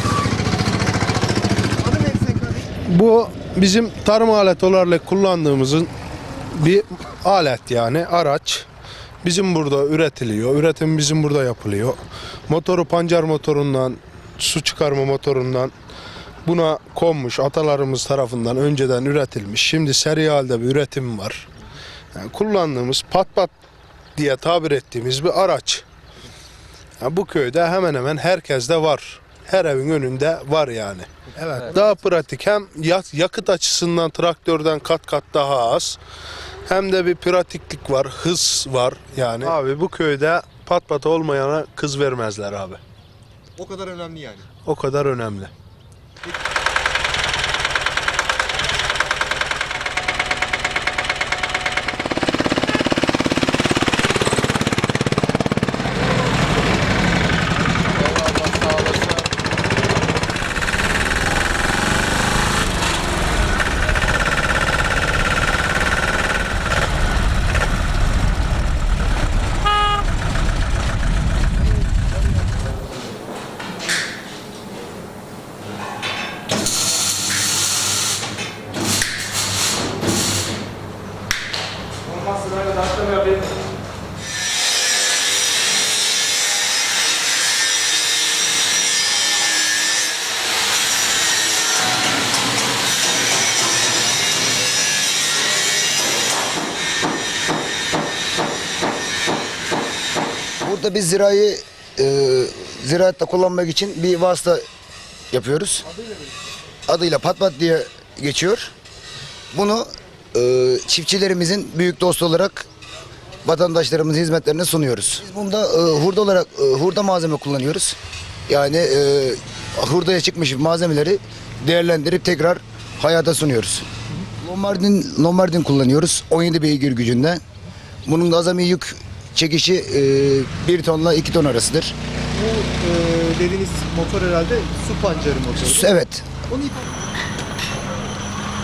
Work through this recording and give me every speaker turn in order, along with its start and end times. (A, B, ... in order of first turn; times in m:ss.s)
0:01.8-0:02.7 A
0:02.8-0:05.9 B
0:06.5-0:08.7 B
0:09.2-0:15.7 B
0:16.4-0:21.5 B
0:22.1-0:23.5 B
0:24.2-0:25.8 B
0:27.0-0:36.0 B
0:36.7-0:42.8 B
0:43.6-0:44.5 A
0:44.6-0:45.5 B
1:40.6-1:44.7 C
1:45.3-1:45.9 C
1:46.9-1:48.7 C
1:49.5-1:52.7 C
1:53.4-1:58.0 C
1:58.5-2:03.9 C
2:04.4-2:07.4 C
2:08.1-2:12.0 C
2:12.3-2:15.8 A
2:15.6-2:16.3 C
2:16.5-2:16.9 A